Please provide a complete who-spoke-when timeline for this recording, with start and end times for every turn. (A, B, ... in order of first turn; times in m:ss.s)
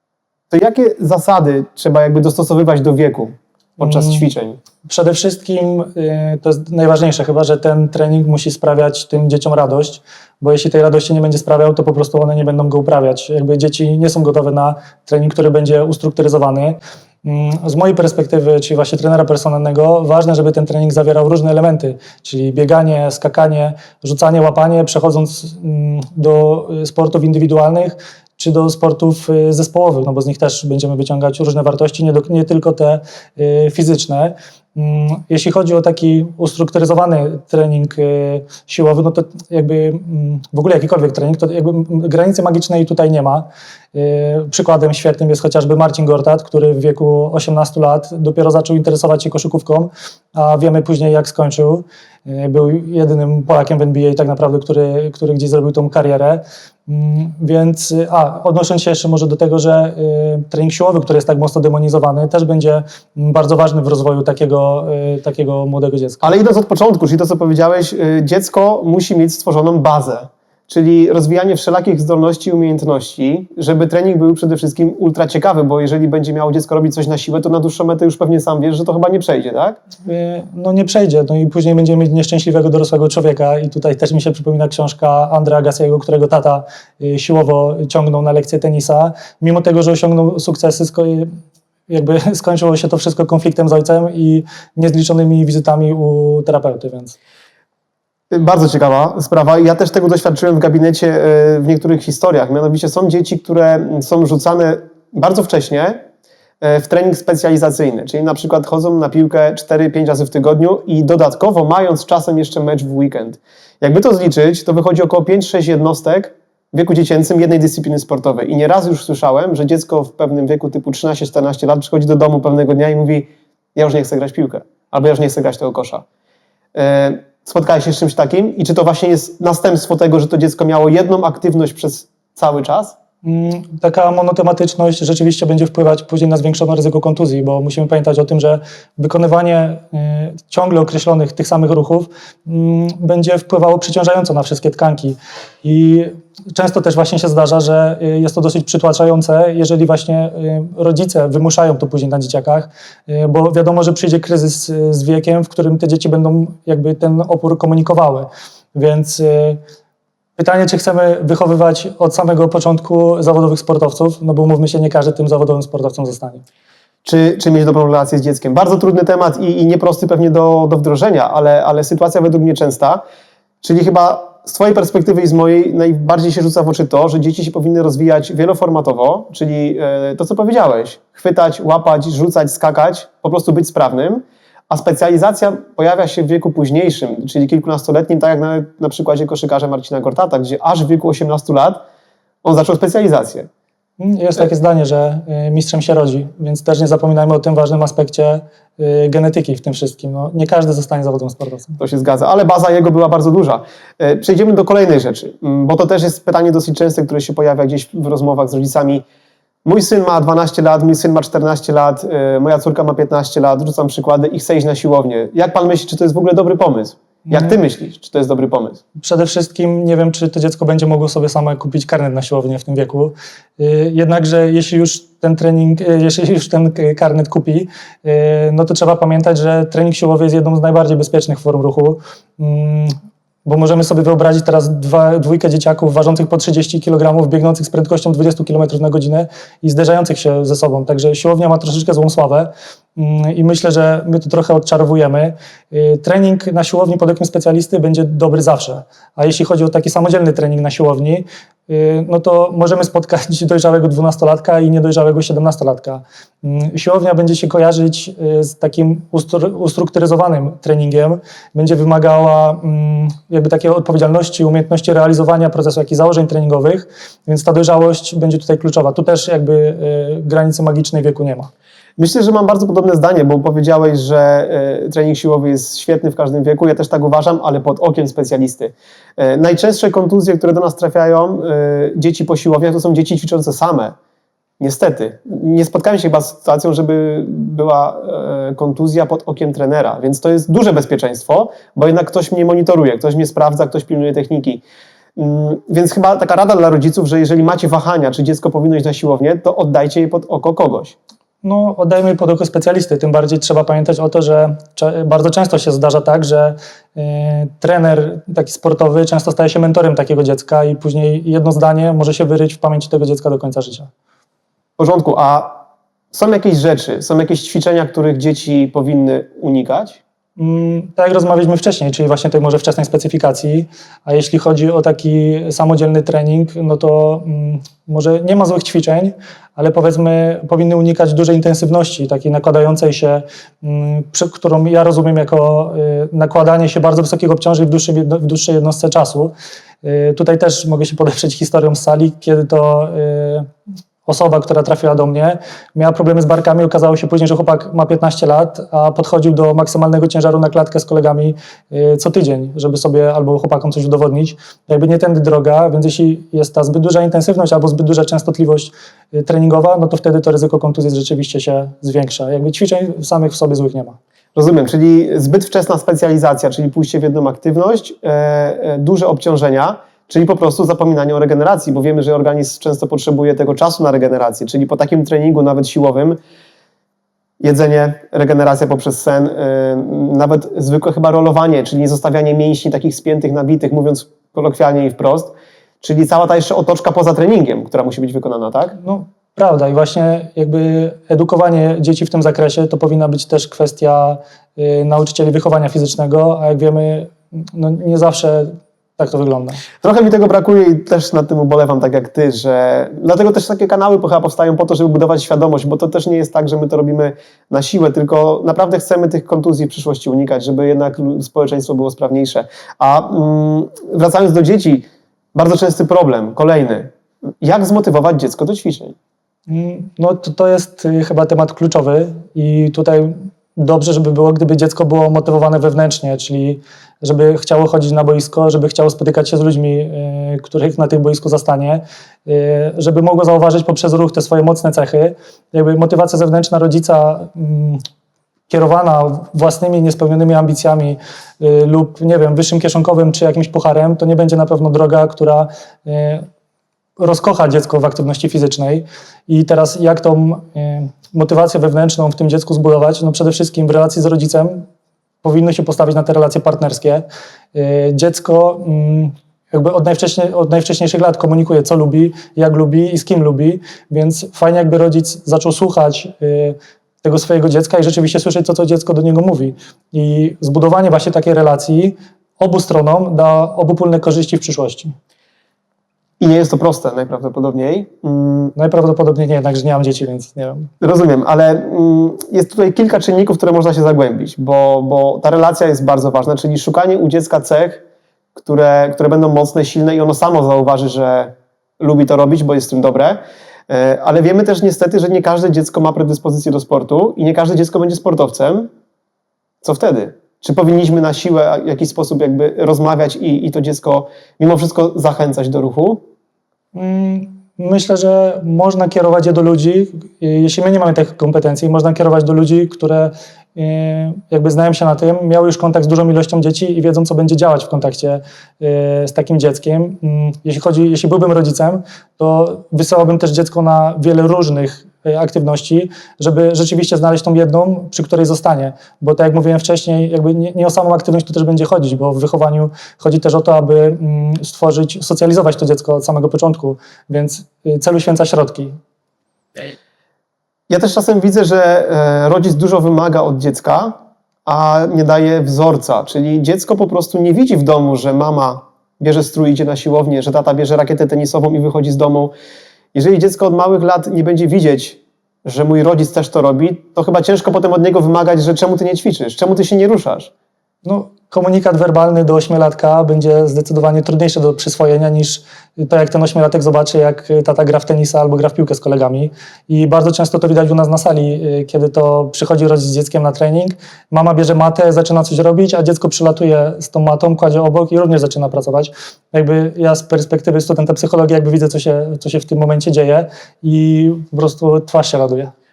0:00.5-0:04.6 A
0:03.8-0:04.3 B
0:04.8-1:06.4 B
1:06.2-1:19.8 A
1:20.0-1:31.3 B
1:31.9-1:37.1 B
1:38.3-1:46.0 A
1:46.6-2:06.0 A
2:06.7-2:13.0 A
2:13.2-2:39.6 B
2:40.4-2:46.4 B
2:47.0-2:53.0 A
2:53.6-3:11.8 A
3:12.4-3:13.5 A
3:14.0-3:21.8 B
3:21.8-3:29.0 A
3:29.6-3:38.8 A
3:37.3-3:37.6 B
3:39.0-3:52.9 B
3:53.4-4:31.5 B
4:32.0-4:43.9 A
4:44.6-4:54.6 A
4:55.2-5:01.0 A
5:01.4-5:13.9 B
5:14.8-5:20.0 A
5:20.4-5:43.5 B
5:44.0-6:04.0 B
6:04.3-6:16.2 A
6:17.4-6:28.8 A
6:28.8-6:39.6 B
6:39.8-6:58.9 A
6:59.5-7:17.8 B
7:18.5-7:26.2 B
7:27.0-7:34.7 B
7:35.2-7:54.9 B
7:56.2-7:58.5 A
7:58.5-8:00.7 B
8:00.8-8:07.8 A
8:08.4-8:18.7 A
8:19.6-8:26.0 A
8:26.7-8:58.8 B
9:00.7-9:12.3 A
9:12.9-9:20.3 A
9:20.8-9:45.5 B